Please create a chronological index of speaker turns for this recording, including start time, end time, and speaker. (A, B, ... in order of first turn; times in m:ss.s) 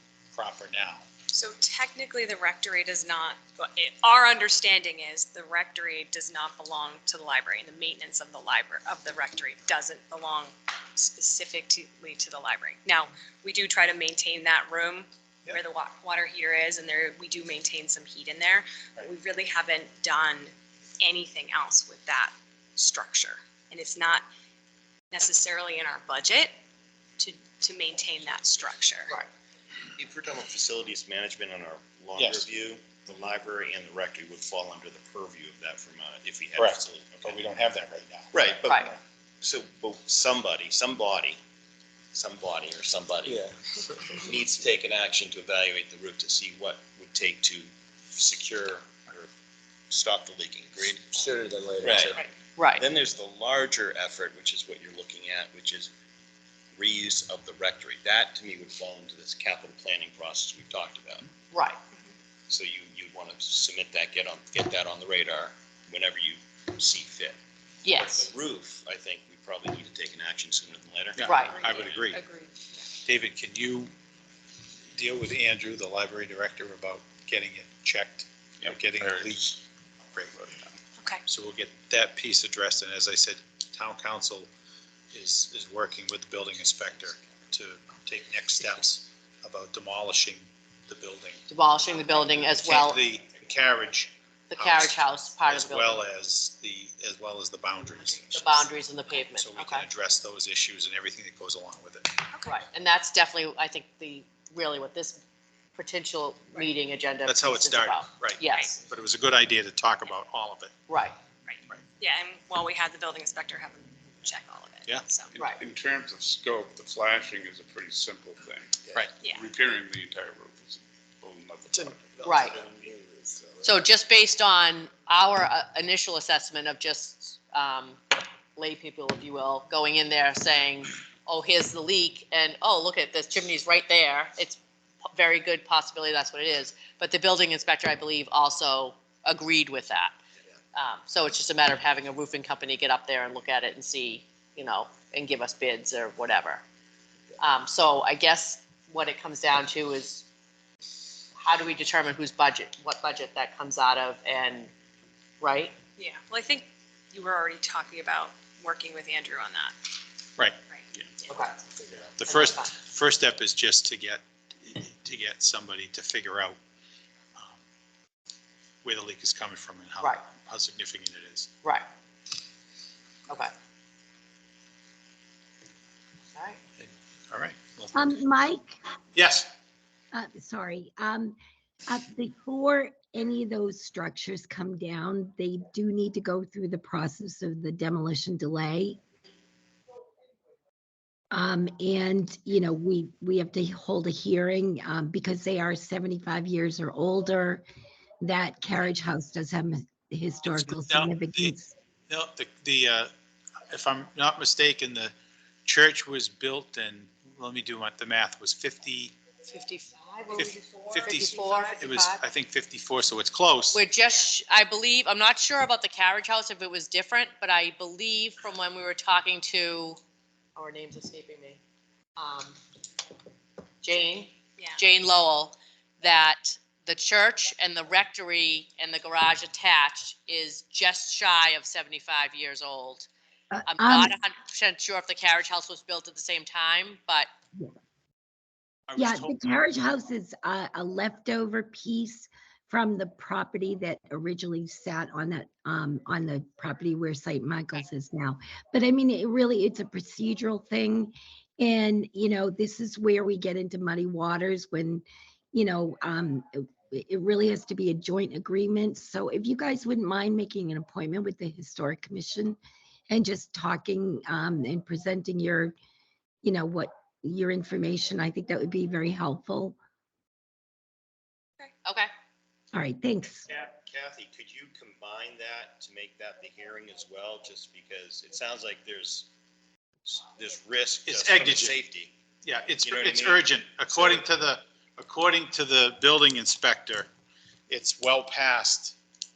0:00.3-0:01.0 A
0:01.3-0:24.2 B
0:25.1-0:26.5 B
0:27.2-0:29.1 B
0:30.0-0:37.4 C
0:32.2-0:32.4 A
0:36.6-0:38.6 A
0:38.3-0:41.4 C
0:38.7-0:38.9 D
0:42.1-0:43.4 C
0:44.1-0:49.3 C
0:49.9-0:51.3 C
0:51.2-0:52.2 E
0:51.8-0:52.2 C
0:52.6-0:52.8 D
0:52.7-0:55.9 C
0:56.7-1:01.3 C
1:01.5-1:01.8 D
1:02.5-1:07.4 C
1:07.8-1:08.3 D
1:07.9-1:12.0 C
1:11.2-1:12.2 A
1:11.2-1:11.7 D
1:11.4-1:12.7 B
1:13.0-1:13.9 A
1:14.9-1:19.6 A
1:21.2-1:24.5 A
1:25.1-1:31.4 A
1:31.5-1:33.0 D
1:32.6-1:34.9 A
1:34.5-1:36.0 D
1:35.4-1:38.6 A
1:38.3-1:39.9 D
1:39.4-1:42.1 A
1:42.3-1:42.6 B
1:42.4-1:45.2 D
1:45.7-1:48.8 D
1:47.2-1:50.7 A
1:48.4-1:48.7 B
1:50.9-1:51.2 D
1:51.5-1:55.3 B
1:55.3-2:02.1 F
1:59.2-1:59.5 B
2:02.2-2:03.8 E
2:02.2-2:02.6 D
2:03.6-2:20.2 D
2:20.7-2:26.6 D
2:27.4-2:30.2 D
2:31.4-2:34.7 D
2:35.4-2:35.7 D
2:36.0-2:39.7 B
2:40.7-2:41.4 B
2:41.3-2:41.6 D
2:41.9-2:46.6 A
2:42.2-2:42.7 D
2:48.8-2:51.5 A
2:56.8-2:58.1 A
2:57.9-2:58.7 G
2:59.1-2:59.5 A
3:00.1-3:01.4 G
3:01.9-3:09.0 G
3:11.3-3:17.6 G
3:18.2-3:21.7 G
3:20.6-3:21.5 A
3:22.1-3:23.1 A
3:23.7-3:25.1 A
3:25.6-3:29.1 A
3:29.5-3:32.2 D
3:30.4-3:33.8 A
3:33.7-3:40.0 D
3:40.6-3:41.6 D
3:42.2-3:42.6 D
3:43.8-3:53.1 D
3:53.5-3:54.1 G
3:53.7-3:57.3 D
3:58.9-3:59.4 A
3:59.0-4:22.6 G
4:23.1-4:25.7 G
4:26.4-4:29.8 G
4:31.8-4:32.1 D
4:32.7-4:33.5 G
4:33.5-4:39.3 C
4:40.0-4:42.1 C
4:41.0-4:41.8 A
4:42.4-4:47.1 A
4:42.8-4:44.2 C
4:47.7-4:49.0 A